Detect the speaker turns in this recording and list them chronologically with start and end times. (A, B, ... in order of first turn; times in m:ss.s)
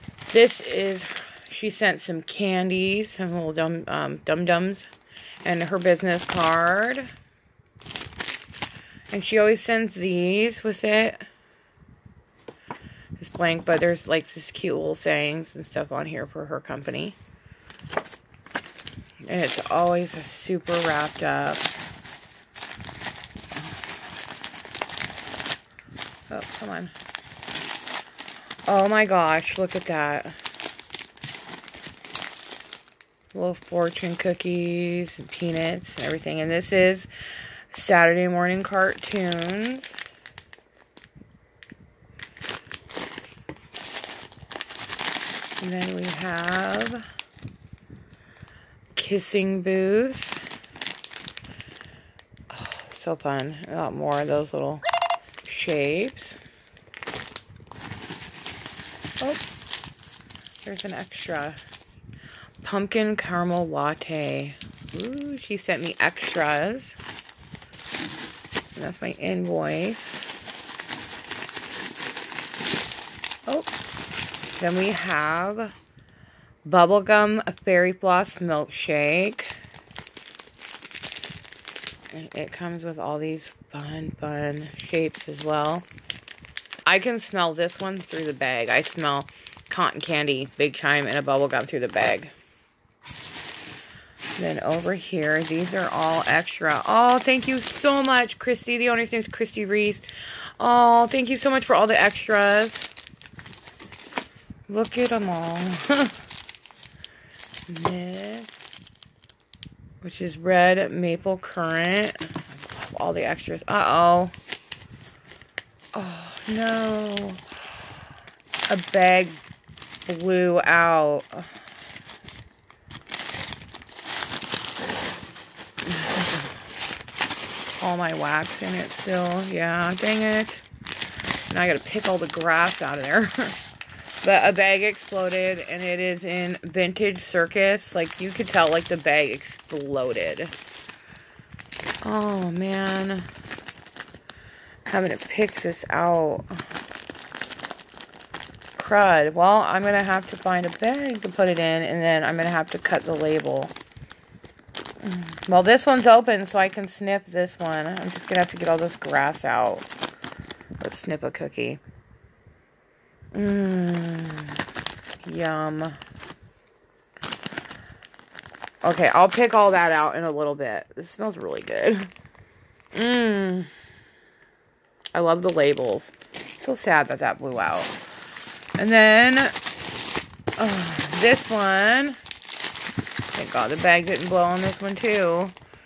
0:00.3-0:04.9 A
0:05.4-0:07.1 A
0:09.1-0:11.2 A
0:13.2-0:17.2 A
0:19.3-0:21.8 A
0:26.3-0:26.9 A
0:28.7-0:30.4 A
0:33.3-0:37.1 A
0:37.7-0:40.0 A
0:45.6-0:47.0 A
0:49.0-0:50.4 A
0:52.5-0:54.8 A
0:55.4-0:56.4 A
0:59.2-0:59.5 A
1:00.6-1:01.6 A
1:02.6-1:07.0 A
1:08.8-1:10.2 A
1:13.5-1:13.8 A
1:14.6-1:15.7 A
1:16.6-1:19.5 A
1:22.1-1:25.9 A
1:26.9-1:32.3 A
1:34.4-1:40.1 A
1:40.6-1:42.9 A
1:44.7-1:46.1 A
1:47.7-1:48.5 A
1:50.0-1:54.3 A
1:55.9-1:57.4 A
1:58.7-1:59.4 A
2:00.1-2:01.5 A
2:05.9-2:06.5 A
2:07.8-2:10.6 A
2:11.5-2:13.6 A
2:14.2-2:20.5 A
2:22.0-2:23.3 A
2:24.9-2:26.6 A
2:28.8-2:33.7 A
2:35.0-2:39.9 A
2:40.8-2:41.8 A
2:43.3-2:44.6 A
2:45.2-2:46.0 A
2:48.8-2:52.1 A
2:52.9-2:53.7 A
2:55.1-2:58.0 A
2:58.8-2:59.5 A
3:00.6-3:02.2 A
3:03.3-3:05.6 A